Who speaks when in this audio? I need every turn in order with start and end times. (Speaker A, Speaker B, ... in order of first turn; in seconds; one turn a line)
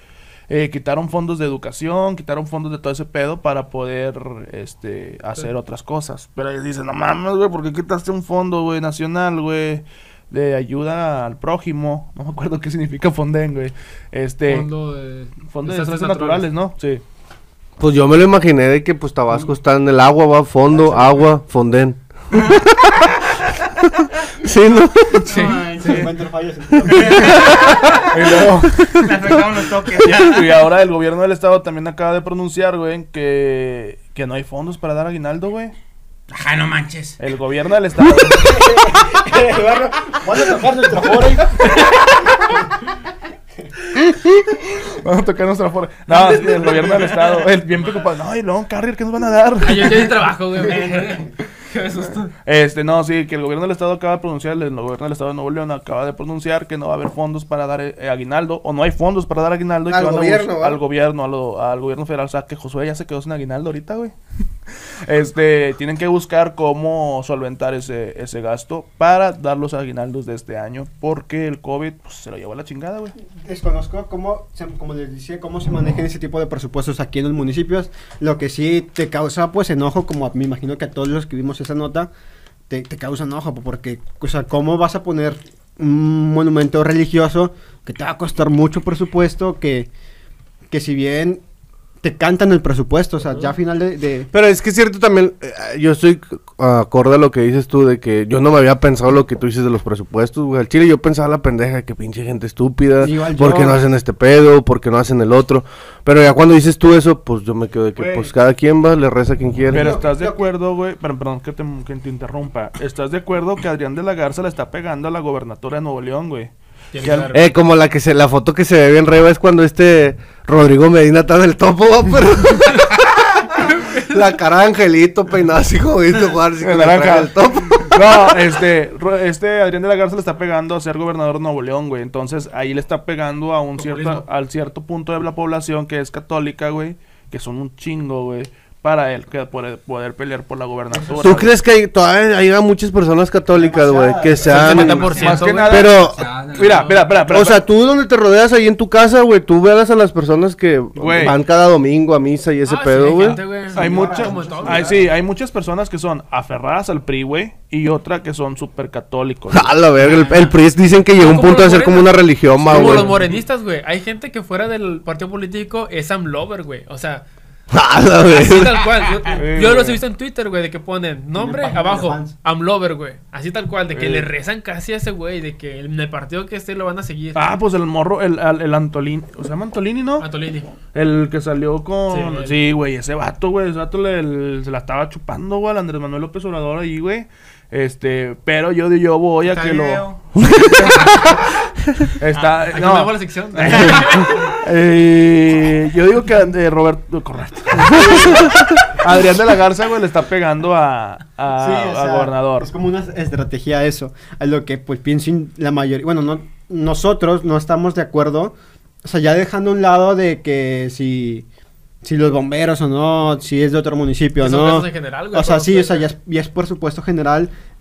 Speaker A: 0.5-14.7
Speaker B: 14.5-16.5
Speaker A: 15.5-17.0
Speaker C: 17.8-22.7
Speaker D: 20.7-21.3
Speaker C: 24.4-25.5
Speaker E: 25.2-26.2
Speaker B: 25.2-26.1
Speaker D: 25.8-27.6
Speaker E: 26.8-30.5
Speaker C: 26.9-27.5
Speaker A: 28.1-29.4
Speaker A: 30.0-35.7
Speaker E: 36.3-37.2
Speaker A: 37.2-38.6
Speaker D: 38.2-41.6
Speaker E: 39.4-40.6
Speaker A: 44.0-50.1
Speaker E: 46.5-48.1
Speaker B: 49.6-52.3
Speaker E: 50.6-51.3
Speaker A: 52.4-64.1
Speaker C: 59.9-60.5
Speaker A: 65.0-73.1
Speaker D: 73.4-82.1
Speaker D: 82.7-89.9
Speaker D: 90.7-91.4
Speaker D: 92.0-94.3
Speaker C: 94.3-110.0
Speaker D: 103.0-103.8
Speaker A: 109.7-117.3
Speaker D: 109.7-110.5
Speaker B: 116.9-117.5
Speaker C: 117.3-128.3
Speaker A: 126.6-141.5
Speaker D: 140.9-141.5
Speaker C: 141.2-145.1
Speaker D: 143.5-145.6
Speaker B: 144.4-145.9
Speaker A: 144.7-147.6
Speaker C: 145.7-146.2
Speaker E: 146.1-147.1
Speaker C: 147.2-153.4
Speaker A: 150.9-151.4
Speaker B: 152.6-154.9
Speaker D: 153.7-155.1
Speaker A: 153.7-159.8
Speaker C: 159.5-163.2
Speaker B: 160.1-160.5
Speaker B: 161.1-167.2
Speaker A: 162.6-163.2
Speaker C: 167.7-168.8
Speaker B: 168.2-177.5
Speaker A: 169.4-170.0
Speaker D: 171.3-172.3
Speaker A: 173.9-174.3
Speaker A: 177.3-180.2
Speaker B: 180.2-180.7
Speaker A: 180.9-191.3
Speaker B: 182.1-182.6
Speaker E: 189.4-190.2
Speaker C: 190.4-190.8
Speaker A: 192.2-198.4
Speaker B: 192.4-194.4
Speaker C: 197.9-198.6
Speaker D: 197.9-198.4
Speaker A: 199.0-202.7
Speaker D: 201.5-211.4
Speaker D: 212.0-217.5
Speaker B: 214.4-216.1